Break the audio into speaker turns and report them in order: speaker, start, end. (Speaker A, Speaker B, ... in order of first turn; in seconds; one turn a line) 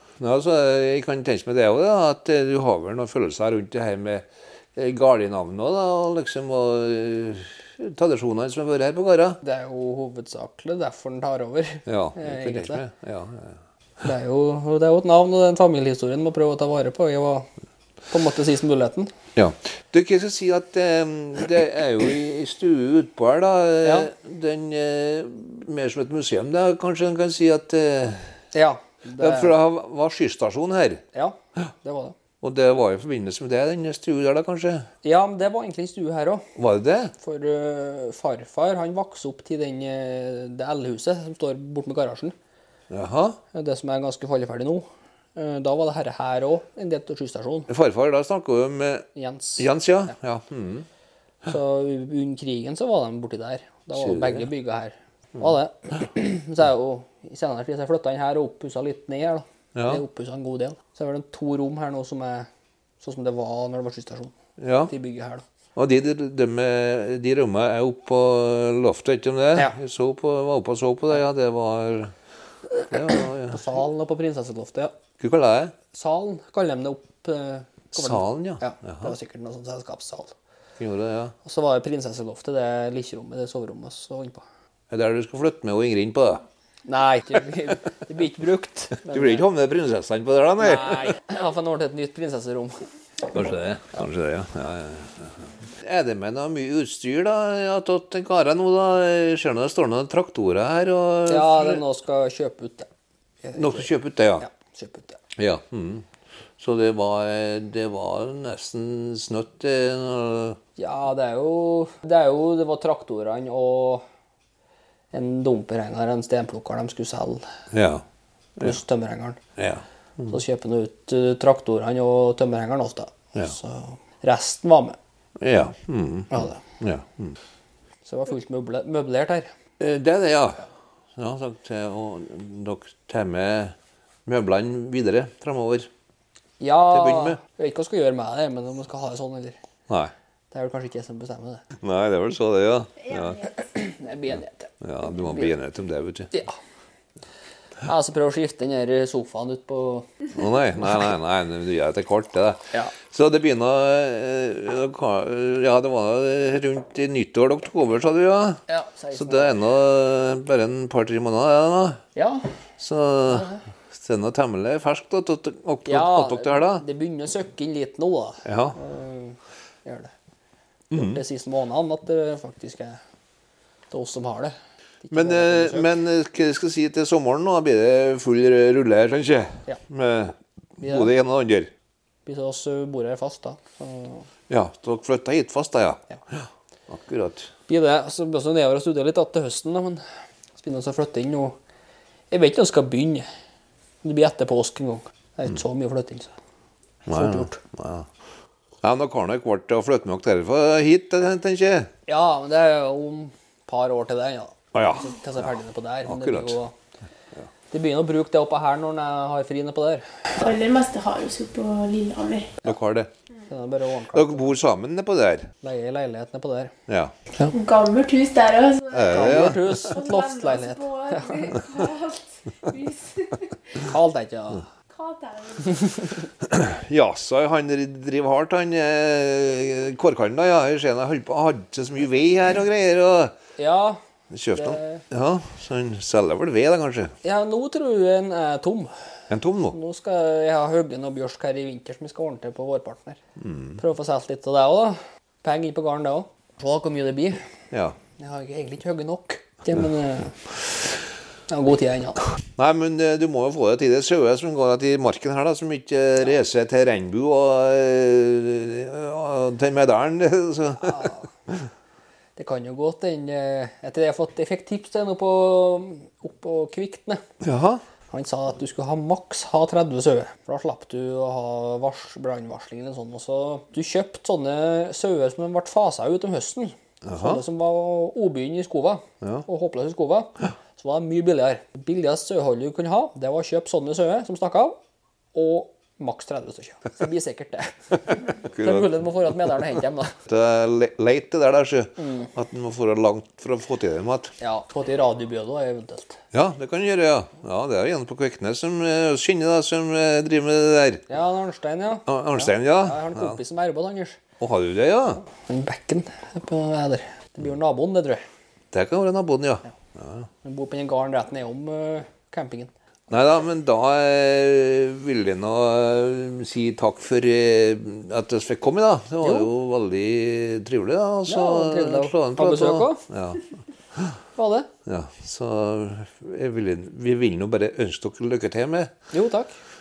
Speaker A: 0.2-9.4
Speaker B: 9.4-12.8
Speaker A: 11.9-13.6
Speaker B: 14.0-17.5
Speaker B: 18.1-19.1
Speaker A: 19.4-28.3
Speaker B: 23.8-24.1
Speaker B: 28.5-29.6
Speaker A: 29.2-31.0
Speaker B: 31.1-32.1
Speaker A: 32.4-34.9
Speaker B: 35.0-36.5
Speaker A: 36.6-37.1
Speaker B: 37.2-42.4
Speaker A: 42.9-43.4
Speaker B: 43.5-47.7
Speaker A: 47.7-49.1
Speaker B: 49.1-49.7
Speaker A: 49.6-50.9
Speaker B: 51.5-62.5
Speaker A: 54.0-54.5
Speaker A: 59.8-60.0
Speaker B: 63.0-64.3
Speaker A: 64.6-64.9
Speaker B: 64.9-65.4
Speaker A: 65.8-72.1
Speaker A: 72.9-73.7
Speaker B: 72.9-74.9
Speaker A: 75.2-75.7
Speaker B: 75.9-80.3
Speaker A: 78.0-79.1
Speaker A: 80.8-81.3
Speaker B: 81.5-84.4
Speaker A: 84.9-86.4
Speaker B: 86.9-89.5
Speaker A: 89.0-91.1
Speaker B: 90.6-92.8
Speaker A: 93.3-101.8
Speaker B: 101.3-102.9
Speaker B: 103.4-105.2
Speaker A: 103.6-104.5
Speaker A: 105.4-106.1
Speaker A: 106.6-110.6
Speaker B: 110.8-114.0
Speaker B: 115.1-117.5
Speaker A: 117.7-118.0
Speaker B: 118.6-119.4
Speaker A: 119.6-119.8
Speaker B: 120.3-125.0
Speaker A: 125.4-127.4
Speaker B: 126.3-126.6
Speaker B: 128.1-129.5
Speaker A: 129.8-133.8
Speaker A: 134.3-135.9
Speaker B: 136.6-139.6
Speaker A: 136.9-137.4
Speaker B: 140.5-141.6
Speaker A: 141.8-143.5
Speaker B: 143.4-145.5
Speaker A: 144.8-146.3
Speaker B: 147.8-150.1
Speaker A: 150.3-158.6
Speaker B: 158.7-159.6
Speaker A: 159.1-162.0
Speaker B: 162.2-162.5
Speaker A: 162.8-166.8
Speaker B: 163.3-163.7
Speaker B: 165.8-170.1
Speaker A: 168.4-168.8
Speaker A: 170.9-171.2
Speaker B: 170.9-173.0
Speaker B: 173.9-175.9
Speaker A: 175.1-181.7
Speaker B: 180.8-181.1
Speaker B: 182.3-184.3
Speaker A: 184.5-187.5
Speaker B: 187.7-190.0
Speaker B: 190.6-191.6
Speaker B: 192.3-193.3
Speaker B: 194.0-196.3
Speaker A: 197.1-198.1
Speaker B: 197.1-197.6
Speaker A: 198.8-201.9
Speaker B: 202.1-206.8
Speaker A: 204.7-205.2
Speaker A: 206.1-206.6
Speaker B: 207.7-210.0
Speaker C: 210.4-212.6
Speaker A: 212.6-213.1
Speaker B: 213.5-214.6
Speaker A: 214.1-215.5
Speaker B: 215.6-216.7
Speaker A: 216.9-217.1
Speaker C: 217.5-223.9
Speaker A: 218.9-220.0
Speaker B: 219.1-221.6
Speaker B: 223.8-224.7
Speaker C: 224.9-226.0
Speaker A: 226.4-233.3
Speaker B: 233.6-234.0
Speaker A: 234.3-237.1
Speaker B: 234.5-235.1
Speaker B: 237.2-238.9
Speaker A: 239.3-239.8
Speaker B: 239.7-243.2
Speaker A: 243.4-243.8
Speaker B: 243.8-247.4
Speaker A: 247.7-248.0
Speaker B: 248.2-250.6
Speaker B: 251.5-252.2
Speaker A: 252.6-261.6
Speaker B: 260.8-261.2
Speaker B: 262.4-267.2
Speaker A: 267.4-267.8
Speaker B: 268.1-284.8
Speaker A: 277.0-277.4
Speaker B: 285.3-290.2
Speaker A: 288.4-288.9
Speaker A: 290.3-294.3
Speaker B: 292.0-292.3
Speaker B: 294.4-296.2
Speaker A: 296.3-301.1
Speaker B: 301.1-304.2
Speaker A: 302.1-303.4
Speaker A: 304.4-305.3
Speaker B: 305.3-308.3
Speaker A: 308.7-310.3
Speaker B: 310.4-312.7
Speaker A: 313.1-324.1
Speaker B: 319.2-319.5
Speaker B: 321.3-323.1
Speaker B: 324.4-324.7
Speaker A: 324.9-328.9
Speaker B: 329.1-329.6